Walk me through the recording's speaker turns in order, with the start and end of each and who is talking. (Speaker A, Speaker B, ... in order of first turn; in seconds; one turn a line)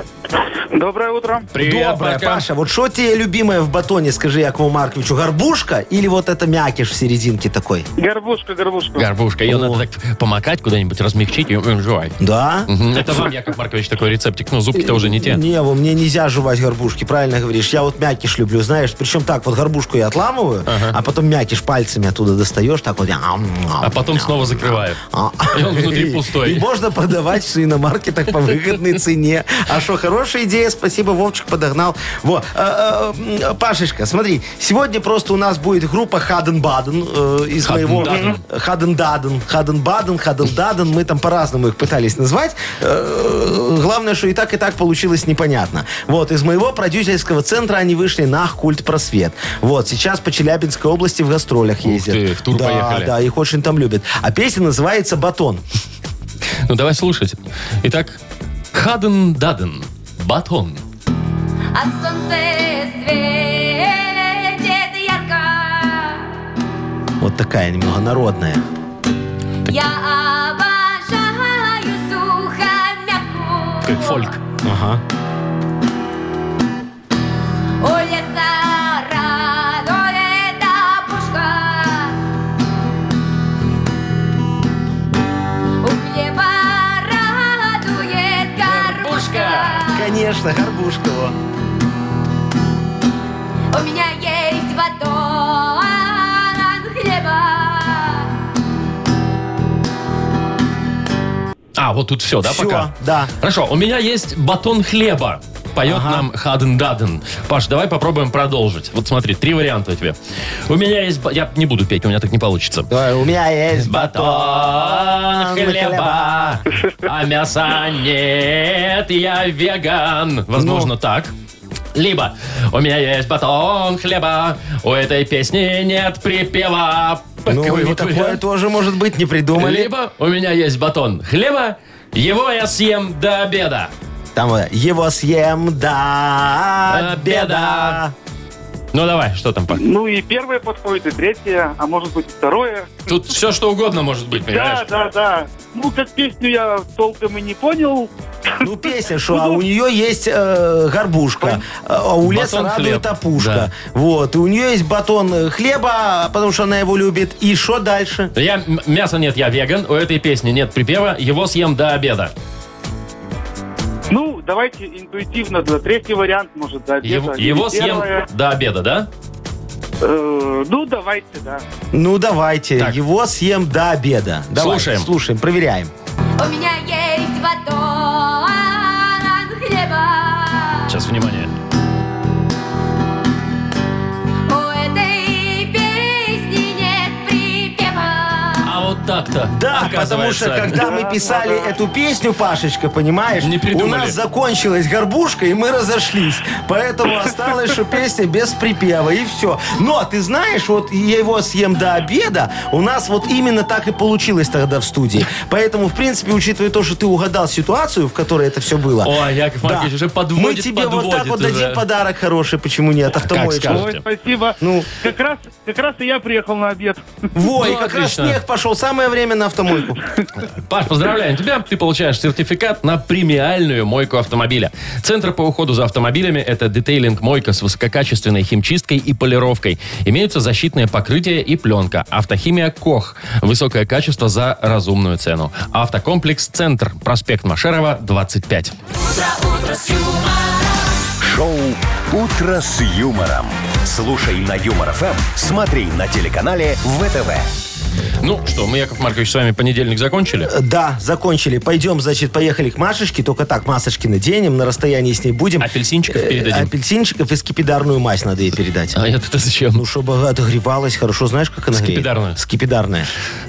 Speaker A: 0.7-1.5
Speaker B: 1.5-2.5
Speaker C: 1.6-7.9
Speaker A: 8.0-9.1
Speaker B: 9.0-15.4
Speaker C: 9.5-9.8
Speaker C: 12.2-13.3
Speaker C: 14.7-55.6
Speaker B: 20.7-21.0
Speaker B: 23.8-26.7
Speaker B: 37.6-38.4
Speaker B: 51.8-53.1
Speaker B: 56.7-58.2
Speaker B: 58.7-60.8
Speaker D: 61.7-66.3
Speaker C: 67.2-68.7
Speaker D: 69.7-74.3
Speaker B: 73.8-74.4
Speaker C: 74.6-75.0
Speaker D: 77.8-82.2
Speaker D: 85.8-90.1
Speaker B: 88.6-89.9
Speaker C: 89.9-91.4
Speaker D: 93.7-98.3
Speaker B: 101.8-110.2
Speaker C: 102.4-103.3
Speaker C: 105.8-106.3
Speaker B: 110.7-112.9
Speaker C: 112.9-116.6
Speaker B: 113.8-121.3
Speaker C: 120.5-120.9
Speaker B: 122.0-128.4
Speaker C: 127.5-129.9
Speaker B: 129.6-133.9
Speaker C: 134.3-138.2
Speaker B: 136.9-138.0
Speaker B: 138.9-139.8
Speaker A: 139.7-143.0
Speaker B: 143.1-144.9
Speaker A: 144.5-148.1
Speaker C: 148.6-158.3
Speaker A: 149.3-149.6
Speaker B: 152.2-153.7
Speaker B: 158.3-162.3
Speaker A: 164.1-168.2
Speaker B: 167.0-169.1
Speaker A: 170.0-171.6
Speaker C: 171.9-175.9
Speaker B: 174.6-175.1
Speaker D: 176.4-180.9
Speaker B: 180.9-181.5
Speaker D: 184.5-188.8
Speaker B: 188.6-190.9
Speaker C: 189.5-213.9
Speaker A: 190.7-191.8
Speaker B: 193.4-194.2
Speaker B: 209.0-211.8
Speaker B: 213.1-214.0
Speaker A: 213.7-217.1
Speaker C: 214.6-214.9
Speaker C: 217.3-220.0
Speaker B: 217.6-218.4
Speaker B: 220.4-238.7
Speaker D: 239.0-240.8
Speaker E: 241.2-247.5
Speaker B: 248.2-250.5
Speaker C: 250.4-259.0
Speaker B: 255.6-256.7
Speaker B: 258.9-259.8
Speaker C: 259.7-263.1
Speaker B: 261.7-262.4